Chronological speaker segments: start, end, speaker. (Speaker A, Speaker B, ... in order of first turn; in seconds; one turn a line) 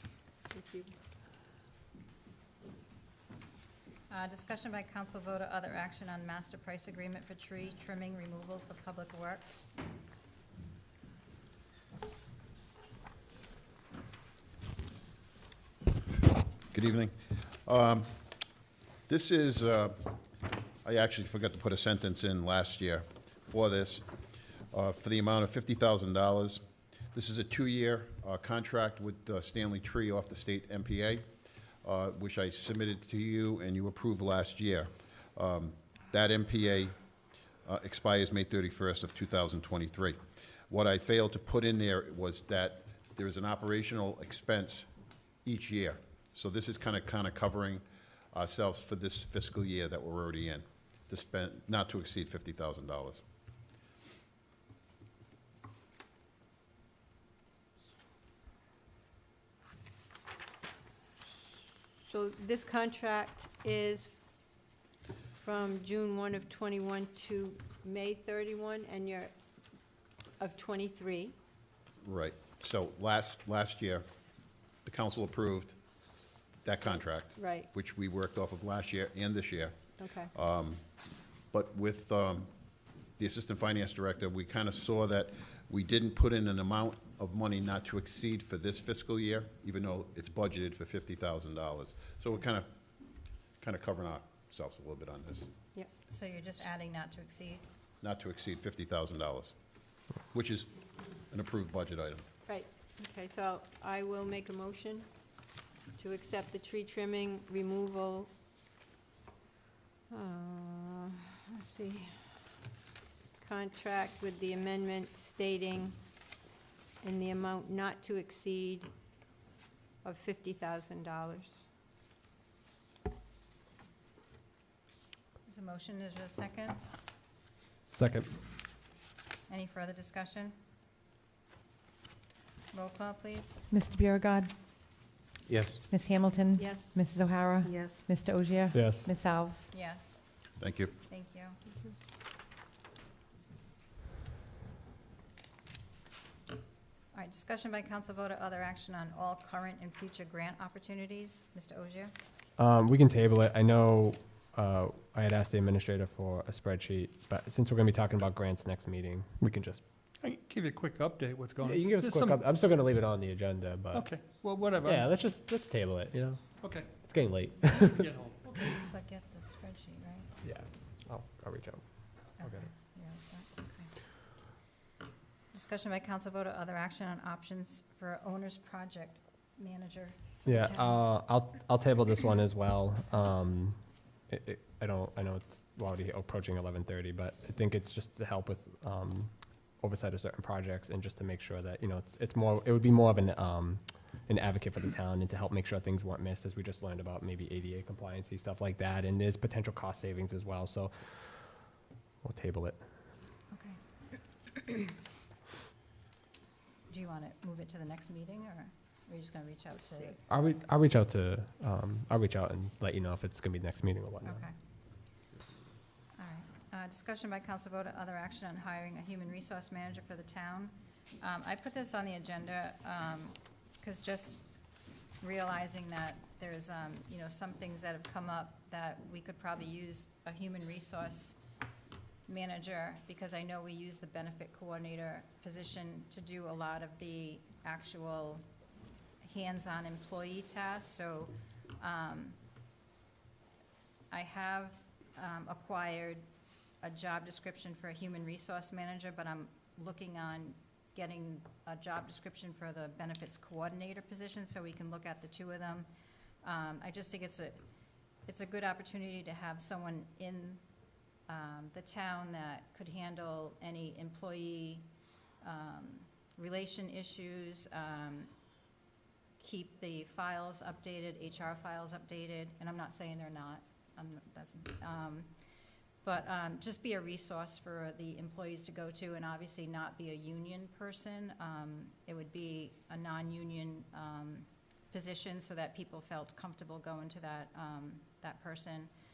Speaker A: 0.5-0.9
Speaker B: 4.1-9.7
Speaker C: 16.7-18.1
Speaker C: 19.1-20.1
Speaker C: 20.8-24.0
Speaker C: 24.7-26.6
Speaker C: 27.1-31.3
Speaker C: 31.8-37.0
Speaker C: 37.6-44.9
Speaker C: 45.5-53.2
Speaker A: 62.0-64.2
Speaker A: 65.4-69.3
Speaker A: 70.4-71.3
Speaker C: 72.0-74.1
Speaker C: 74.8-75.8
Speaker C: 76.6-80.8
Speaker A: 77.3-77.7
Speaker A: 80.0-80.3
Speaker C: 81.5-82.5
Speaker C: 83.2-92.7
Speaker C: 93.6-95.5
Speaker B: 96.1-97.6
Speaker C: 98.0-99.5
Speaker C: 100.3-100.7
Speaker C: 101.3-102.2
Speaker A: 102.5-105.1
Speaker A: 106.0-108.3
Speaker A: 110.1-112.4
Speaker A: 113.4-116.0
Speaker A: 117.0-118.9
Speaker A: 120.0-121.6
Speaker B: 125.5-126.8
Speaker D: 127.9-128.3
Speaker B: 129.5-130.5
Speaker B: 132.7-133.6
Speaker E: 133.7-134.5
Speaker E: 135.9-139.7
Speaker A: 136.6-136.9
Speaker D: 138.7-139.1
Speaker B: 139.7-140.2
Speaker C: 140.6-140.9
Speaker B: 141.1-141.6
Speaker B: 147.1-152.1
Speaker D: 152.6-159.8
Speaker F: 160.2-162.7
Speaker D: 161.6-164.1
Speaker F: 163.9-165.1
Speaker D: 164.8-168.1
Speaker F: 166.6-166.9
Speaker F: 167.8-168.8
Speaker B: 168.8-170.3
Speaker D: 170.4-171.8
Speaker D: 172.3-172.7
Speaker B: 172.4-173.9
Speaker B: 175.5-181.0
Speaker D: 180.4-183.8
Speaker D: 184.3-201.4
Speaker D: 202.2-202.8
Speaker B: 203.5-203.8
Speaker B: 206.9-210.2
Speaker D: 210.3-214.4
Speaker B: 214.2-214.5
Speaker B: 216.2-224.5
Speaker B: 225.2-231.4
Speaker B: 232.3-238.4
Speaker B: 239.2-242.4
Speaker B: 244.1-246.2
Speaker B: 246.8-255.9
Speaker B: 256.4-257.6
Speaker B: 258.2-260.6
Speaker B: 261.3-264.8
Speaker B: 265.4-268.3
Speaker B: 269.4-275.3
Speaker B: 276.0-288.9